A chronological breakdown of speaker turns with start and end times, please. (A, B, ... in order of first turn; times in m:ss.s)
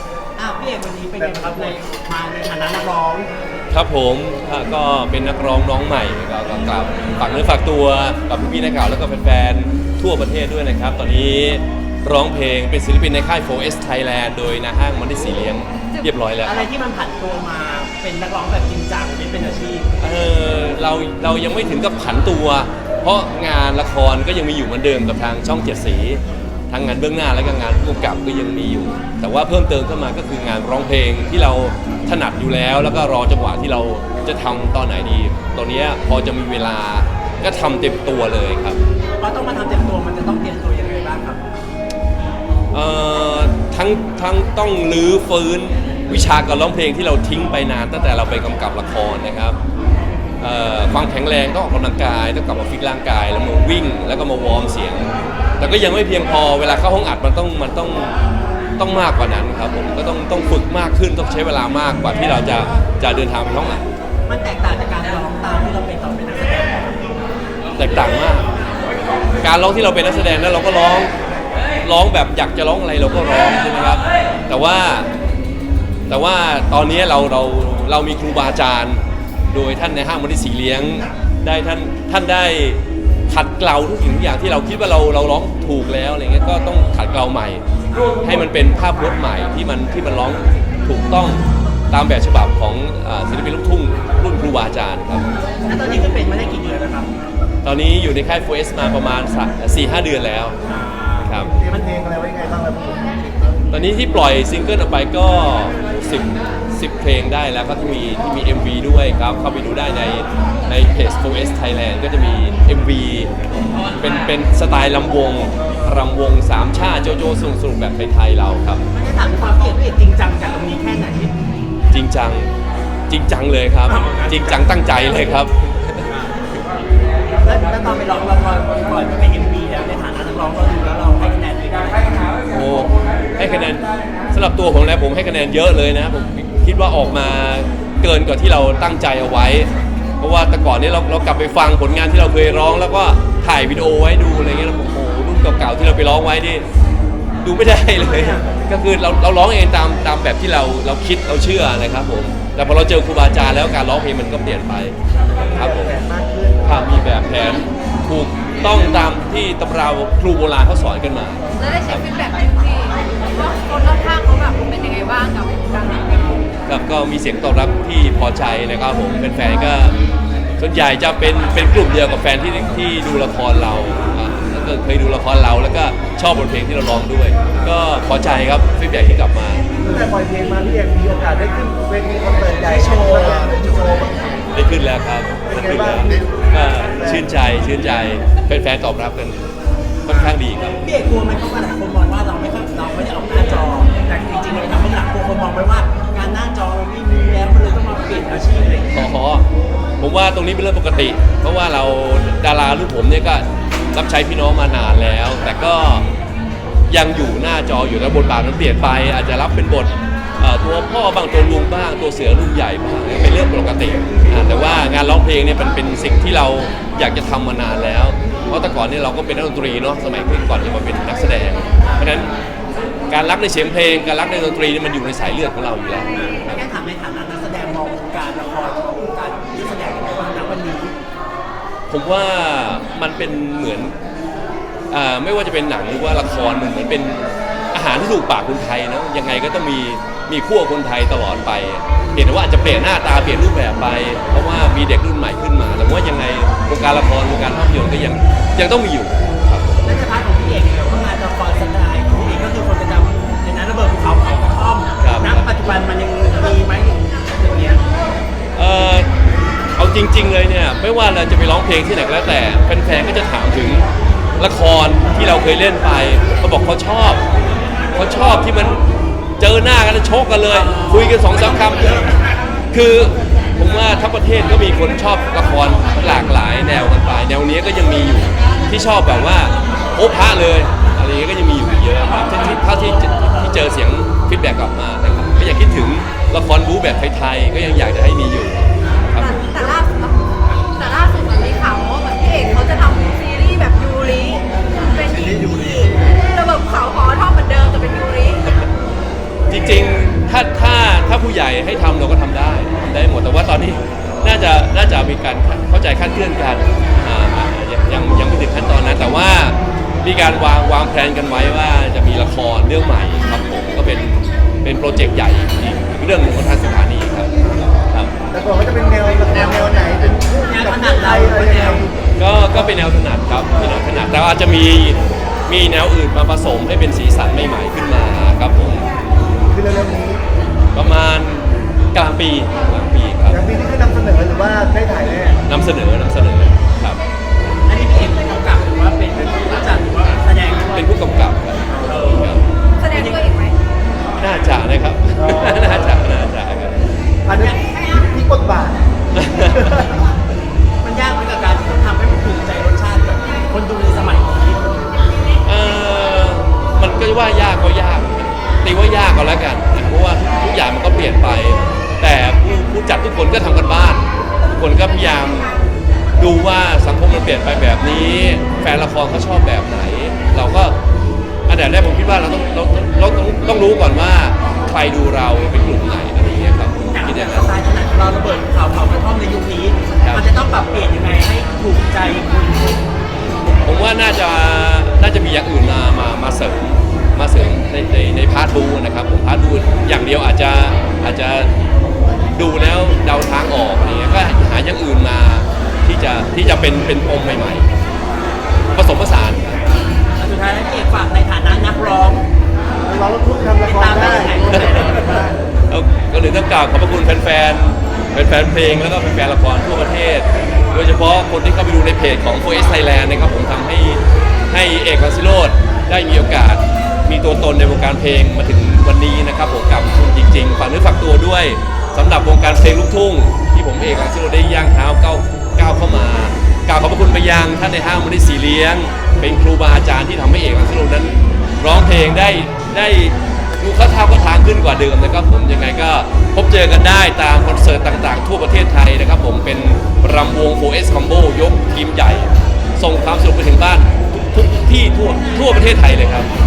0:00.4-0:03.3 A
0:01.2-0:01.7 B
0:03.7-0:16.7 C
0:16.4-0:19.9 A
0:20.0-0:38.8 C
0:39.2-0:41.4 A
0:42.7-0:49.6 C
0:50.4-0:58.1 C
0:58.8-1:03.8 C
1:04.3-1:07.0 A
1:07.8-1:08.5 C
1:09.4-1:11.1 C
1:11.8-1:15.1 C
1:16.1-1:27.6 C
1:27.9-1:28.2 A
1:28.2-1:35.3 C
1:35.6-1:37.1 A
1:37.6-1:40.6 C
1:40.7-1:41.4 A
1:41.2-1:41.5 C
1:41.4-1:43.1 B
1:43.7-1:53.3 C
1:53.9-1:58.8 C
1:58.9-2:01.3 A
2:01.9-2:02.5 C
2:03.1-2:06.0 C
2:03.9-2:04.7 A
2:07.3-2:12.4 A
2:12.5-2:26.6 C
2:27.4-2:35.0 C
2:28.0-2:28.4 A
2:35.4-2:37.0 B
2:35.5-2:36.0 C
2:36.6-2:42.1 C
2:41.6-2:46.5 D
2:46.7-2:50.0 C
2:50.6-2:59.7 C
2:59.8-3:00.1 A
2:59.9-3:04.1 B
3:02.6-3:04.2 A
3:04.5-3:09.4 C
3:05.5-3:06.4 B
3:06.9-3:07.3 B
3:10.1-3:10.8 C
3:10.1-3:19.0 A
3:18.9-3:19.5 C
3:20.0-3:26.1 C
3:26.9-3:42.3 C
3:41.8-3:42.1 A
3:43.1-3:46.6 C
3:46.1-3:51.0 A
3:51.9-3:53.9 C
3:54.9-4:09.8 C
4:09.8-4:17.8 A
4:15.0-4:15.4 C
4:18.6-4:19.1 C
4:19.8-4:23.9 C
4:24.4-4:27.2 C
4:27.9-4:28.8 C
4:29.4-4:32.1 C
4:30.5-4:32.2 A
4:32.7-4:49.4 C
4:48.8-4:49.1 A
4:49.2-4:58.6 D
4:55.2-4:56.0 B
4:59.5-5:17.3 C
5:18.3-5:22.0 B
5:19.3-5:21.9 A
5:22.2-5:28.8 C
5:29.5-5:30.2 B
5:30.8-5:33.4 C
5:33.3-5:35.4 B
5:35.4-5:37.0 C
5:37.7-5:40.9 A
5:40.7-5:42.4 C
5:41.8-5:42.4 A
5:42.8-5:43.6 D
5:42.9-5:43.2 A
5:44.2-5:46.8 C
5:45.2-5:45.9 B
5:47.2-5:50.0 B
5:47.3-5:47.6 A
5:49.2-5:49.7 C
5:50.8-5:54.8 A
5:55.4-6:05.6 C
6:06.2-6:10.8 C
6:11.5-6:17.5 C
6:16.9-6:22.8 A
6:20.0-6:20.3 C
6:23.6-6:31.5 C
6:32.3-6:37.7 C
6:38.7-6:39.5 C
6:40.2-6:42.2 A
6:42.8-6:45.4 B
6:43.6-6:45.4 A
6:45.7-7:26.3 C